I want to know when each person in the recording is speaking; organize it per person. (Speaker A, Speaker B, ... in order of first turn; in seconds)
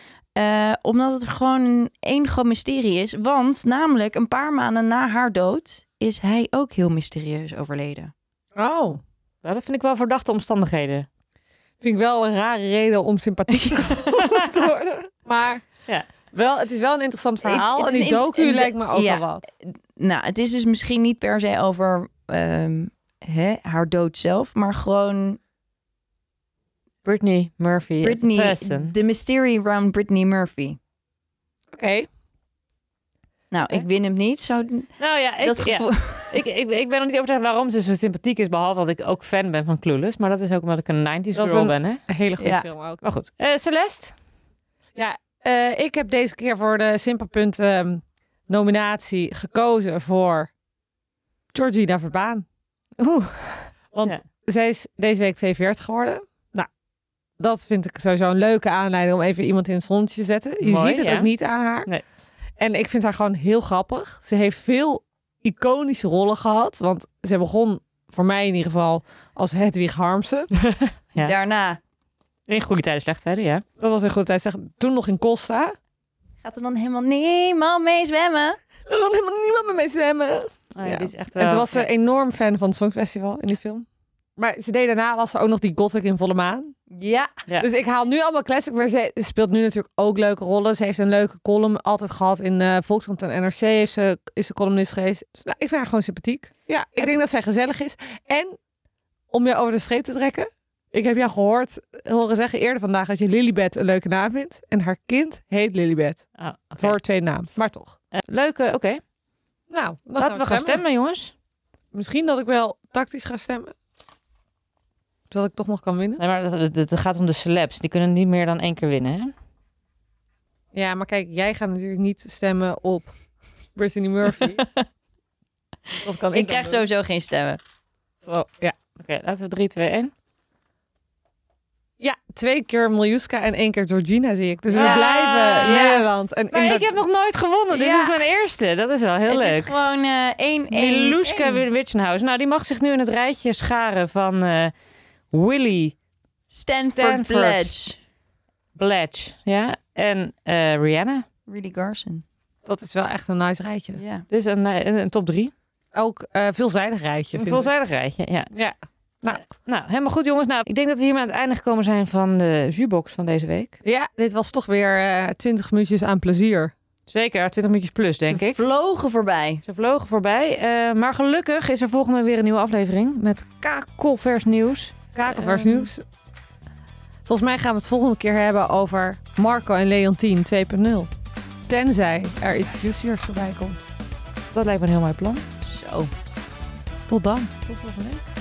Speaker A: 0.4-8.1, 13.5-14.1, 17.4-25.4, 28.0-30.8, 33.5-36.4, 42.4-42.6, 71.2-71.8, 76.4-78.6, 86.9-87.3, 124.4-124.9, 126.3-127.6, 134.7-136.1, 137.7-138.2, 139.3-141.7, 146.5-148.0, 151.5-152.2, 153.9-154.3, 168.2-169.6, 185.6-186.1
Speaker B: 8.6-9.0, 11.8-15.7, 16.3-19.5, 31.7-32.1, 41.4-43.0, 45.0-50.5, 51.5-52.5, 53.9-56.7, 57.4-61.9, 62.6-70.5, 73.8-75.7, 78.9-83.9, 84.4-86.7, 87.6-98.6, 99.3-106.3, 106.8-108.0, 109.7-110.8, 111.9-113.7, 115.3-116.2, 120.7-123.1, 123.8-124.6, 126.0-126.9, 128.2-128.8, 132.0-136.9, 152.7-154.0, 155.9-157.7, 158.5-159.4, 163.8-166.7, 175.2-176.0, 177.3-181.1, 181.7-183.9, 187.1-187.5
Speaker C: 9.4-11.1, 27.0-28.9, 35.0-42.0, 43.0-44.2, 53.0-54.2, 60.6-61.3, 70.6-71.3, 72.5-73.7, 80.8-81.9, 106.4-107.0, 108.1-109.0, 110.2-111.3, 116.2-119.3, 129.0-130.1, 134.7-135.8, 136.5-139.7, 140.7-144.7, 145.3-146.0, 146.8-147.7, 148.8-151.2, 154.3-155.5, 157.3-158.5, 159.3-163.8, 167.1-168.6, 169.7-175.9, 184.5-185.4, 187.7-188.2